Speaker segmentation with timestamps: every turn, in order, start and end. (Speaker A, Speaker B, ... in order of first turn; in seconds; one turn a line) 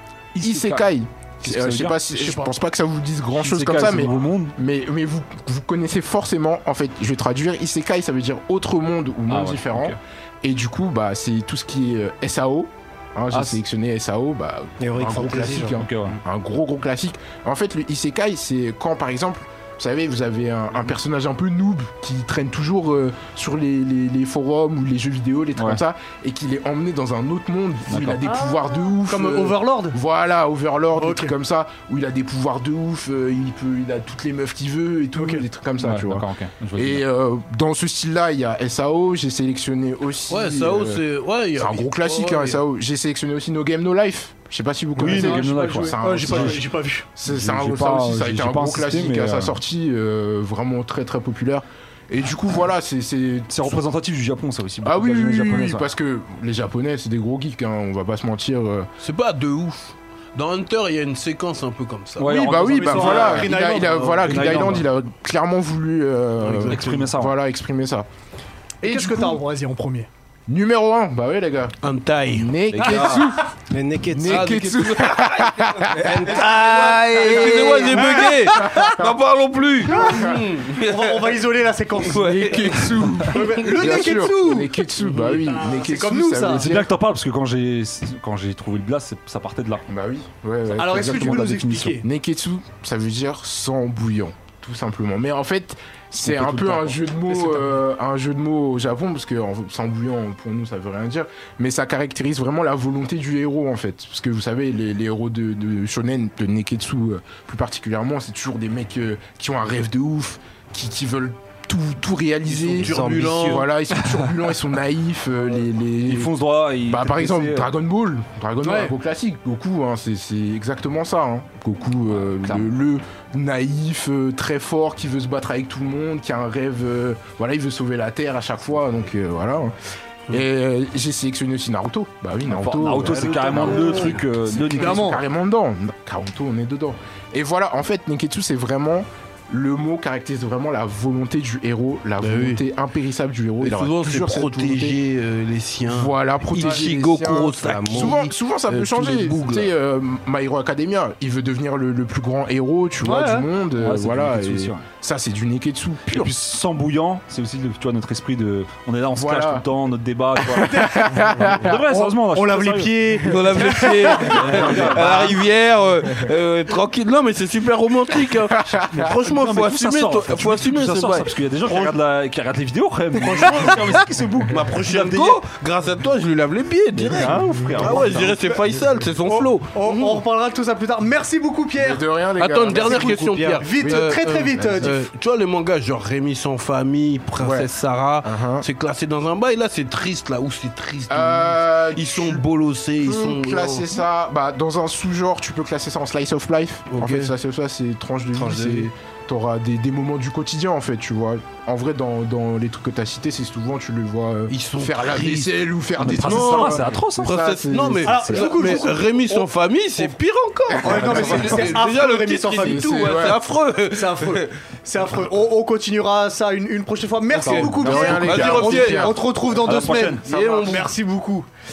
Speaker A: 0.3-0.8
Speaker B: 0.4-41.0
Speaker A: 1.4-2.0
Speaker C: 2.1-2.5
Speaker A: 3.4-4.5
Speaker A: 9.3-10.0
Speaker A: 13.3-13.6
Speaker D: 14.8-15.8
Speaker A: 15.7-16.2
Speaker A: 27.9-28.2
Speaker C: 28.2-30.0
Speaker C: 30.9-31.3
Speaker C: 35.1-35.4
Speaker A: 35.8-37.0
Speaker E: 40.3-42.6
Speaker B: 41.6-46.6
Speaker C: 45.0-47.1
Speaker A: 45.0-46.6
Speaker B: 47.1-53.8
Speaker A: 47.2-49.6
Speaker A: 53.5-55.9
Speaker B: 54.8-58.9
Speaker E: 59.0-62.3
Speaker A: 62.2-63.6
Speaker B: 62.2-68.1
Speaker C: 62.3-64.7
Speaker E: 63.9-64.6
Speaker A: 64.2-64.8
Speaker E: 66.4-67.1
Speaker A: 66.7-67.3
Speaker C: 68.8-70.1
Speaker B: 68.8-69.4
Speaker B: 70.5-71.8
Speaker E: 71.8-73.3
Speaker B: 72.3-73.5
Speaker A: 72.7-73.3
Speaker D: 73.7-74.8
Speaker B: 74.1-76.3
Speaker E: 74.2-81.4
Speaker D: 75.9-78.0
Speaker C: 76.3-78.8
Speaker B: 78.5-78.9
Speaker C: 79.8-82.6
Speaker E: 82.0-83.9
Speaker B: 82.1-86.9
Speaker C: 83.3-86.8
Speaker A: 86.5-89.8
Speaker B: 89.9-116.3
Speaker C: 90.7-92.0
Speaker A: 90.8-92.0
Speaker A: 96.2-97.2
Speaker E: 112.5-113.7
Speaker D: 112.8-113.6
Speaker A: 116.0-117.7
Speaker B: 116.8-129.7
Speaker C: 118.6-118.9
Speaker A: 122.1-122.7
Speaker B: 130.3-145.0
Speaker A: 132.5-135.1
Speaker D: 133.0-133.7
Speaker C: 133.6-134.1
Speaker C: 134.8-135.2
Speaker E: 142.2-142.6
Speaker E: 143.6-149.7
Speaker B: 145.8-156.3
Speaker D: 147.6-148.2
Speaker C: 153.0-153.5
Speaker A: 153.8-154.9
Speaker A: 156.1-163.1
Speaker B: 159.2-159.6
Speaker C: 160.5-165.3
Speaker B: 160.8-161.7
Speaker E: 163.2-171.9
Speaker A: 164.2-165.4
Speaker A: 168.9-175.4
Speaker C: 173.3-173.8
Speaker E: 173.4-173.8
Speaker E: 174.5-180.2
Speaker A: 176.9-178.5
Speaker C: 179.3-182.0
Speaker B: 181.8-184.9
Speaker E: 182.4-194.0
Speaker D: 182.8-183.6
Speaker C: 183.6-185.0
Speaker B: 187.4-187.7
Speaker B: 188.2-188.7
Speaker B: 191.1-192.4
Speaker B: 193.0-208.2
Speaker E: 196.9-197.3
Speaker E: 198.3-198.9
Speaker E: 204.5-205.5
Speaker A: 206.0-207.4
Speaker E: 206.2-214.5
Speaker C: 208.0-209.5
Speaker A: 208.1-208.8
Speaker C: 210.8-213.3
Speaker A: 210.9-211.8
Speaker B: 210.9-211.6
Speaker B: 212.6-213.4
Speaker C: 213.9-221.5
Speaker E: 217.3-219.2
Speaker A: 217.3-218.7
Speaker B: 217.7-219.3
Speaker A: 219.6-220.3
Speaker E: 220.0-220.9
Speaker B: 220.2-220.9